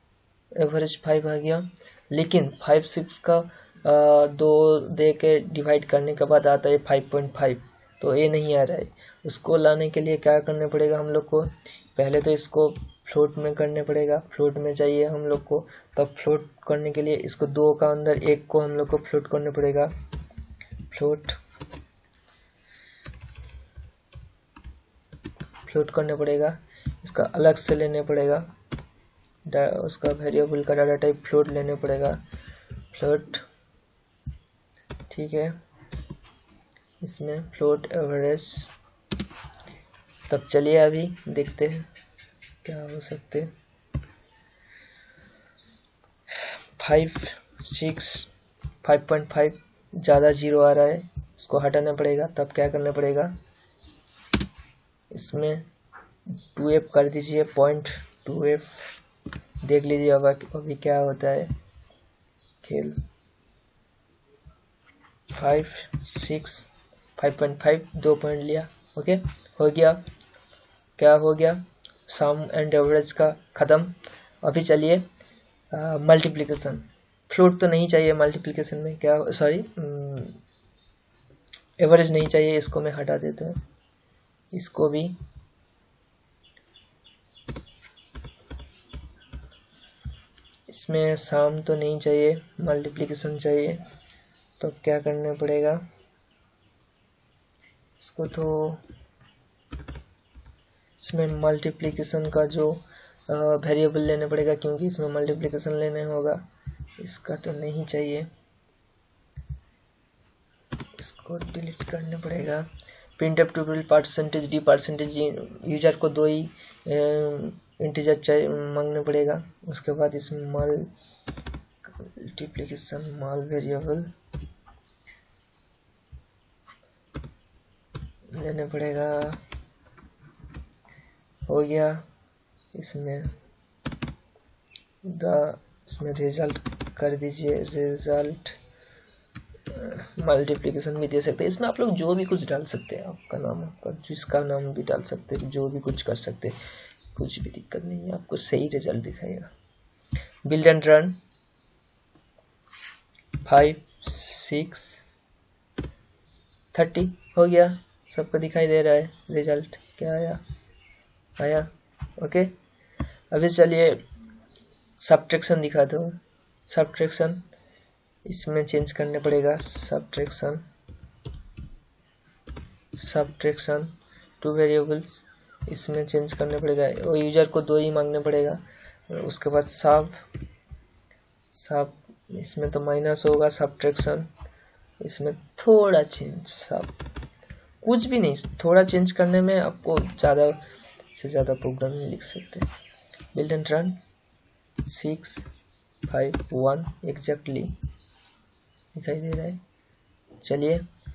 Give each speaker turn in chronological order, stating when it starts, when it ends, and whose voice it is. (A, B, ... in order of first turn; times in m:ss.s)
0:00.6-0:19.9 A
0:20.9-0:21.4 A
0:25.6-0:28.5 A
0:29.4-0:32.2 A
0:32.9-0:33.4 A
0:35.1-0:35.6 A
0:37.0-0:38.7 A
0:40.3-0:41.9 A
0:42.6-0:43.5 A
0:46.8-0:48.3 A
0:48.8-0:53.3 A
0:55.1-0:55.6 A
0:56.5-0:59.0 A
0:59.6-1:01.5 A
1:02.6-1:03.0 A
1:05.3-1:10.0 A
1:11.0-1:15.0 A
1:15.7-1:20.4 A
1:21.8-1:23.6 A
1:24.5-1:25.2 A
1:30.7-1:33.8 A
1:34.6-1:35.8 A
1:38.0-1:38.8 A
1:41.0-1:46.4 A
1:47.0-1:48.3 A
1:51.0-1:52.6 A
1:53.2-2:00.9 A
2:02.0-2:04.1 A
2:08.3-2:09.4 A
2:11.5-2:12.0 A
2:12.7-2:13.3 A
2:15.0-2:18.6 A
2:19.7-2:26.6 A
2:27.1-2:29.5 A
2:30.4-2:31.2 A
2:33.4-2:35.0 A
2:36.7-2:40.4 A
2:41.4-2:42.5 A
2:43.3-2:44.0 A
2:45.0-2:47.4 A
2:48.2-2:50.6 A
2:52.9-3:00.2 A
3:01.5-3:04.3 A
3:05.0-3:06.9 A
3:07.8-3:10.6 A
3:11.1-3:12.7 A
3:13.3-3:14.0 A
3:14.8-3:15.4 A
3:16.1-3:17.8 A
3:18.9-3:19.6 A
3:20.4-3:20.8 A